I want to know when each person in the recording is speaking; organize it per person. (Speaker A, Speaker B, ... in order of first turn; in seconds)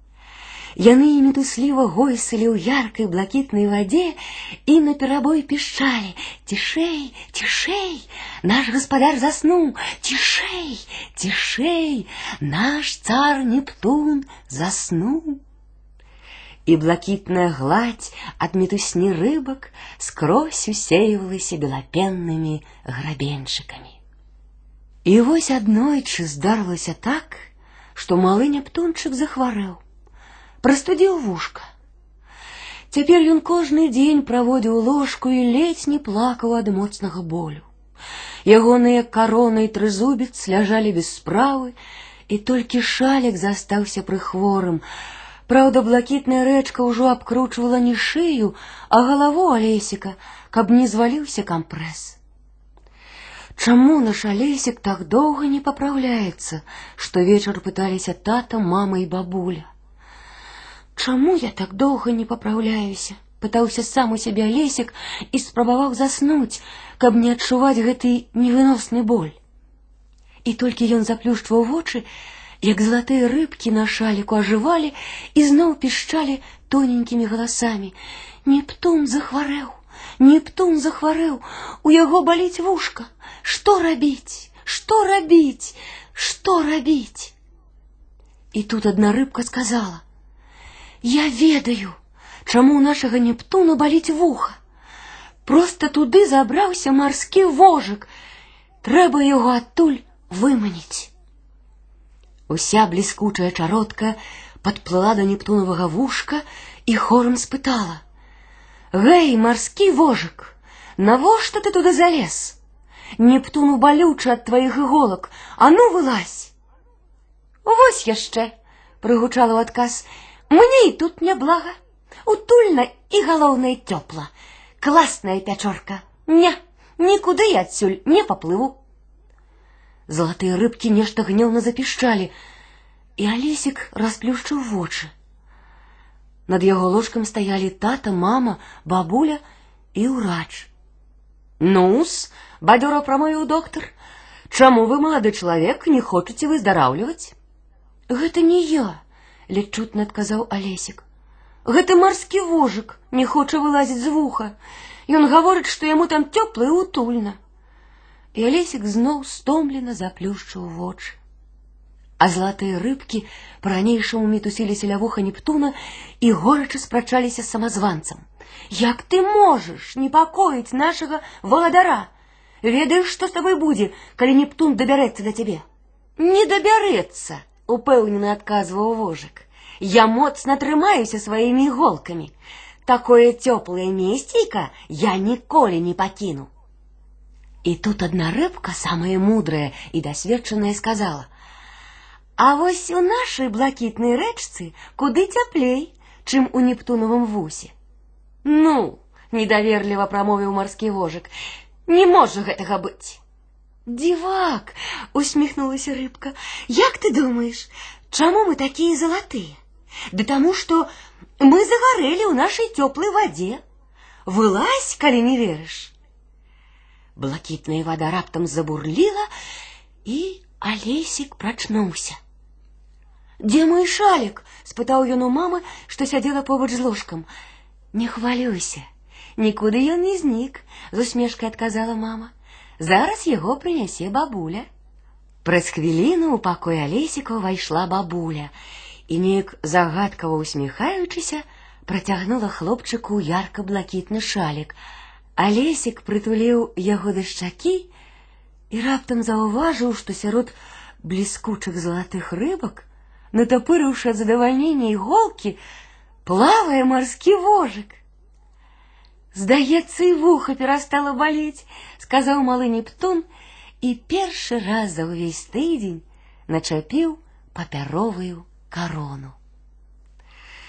Speaker A: 0.8-15.4, 16.6-24.0, 25.0-29.8, 30.6-31.7, 32.9-37.7, 38.4-41.8, 42.3-44.8, 45.5-52.2, 53.5-59.7, 61.0-69.4, 70.4-72.1, 72.6-87.3, 88.5-90.0, 91.0-94.6, 95.5-98.1, 98.8-101.1, 102.5-108.0, 108.9-112.6, 113.2-116.5, 117.6-128.8, 130.1-132.3, 133.2-135.1, 136.5-139.4, 139.9-140.7, 141.6-143.9, 144.5-147.3, 148.1-151.0, 151.6-154.6, 155.1-157.4, 158.3-161.2, 162.2-172.1, 172.6-175.6, 176.2-186.5, 187.6-191.3, 192.4-197.7, 198.4-201.3, 201.9-203.2, 203.9-209.6, 210.1-210.9, 211.4-213.6, 214.2-215.9, 217.2-219.3, 220.0-222.2, 223.4-227.3, 227.9-228.8, 229.4-234.7, 235.4-238.5, 239.1-244.8, 245.4-247.9, 248.7-255.6, 256.2-258.0, 259.3-263.3, 263.8-269.4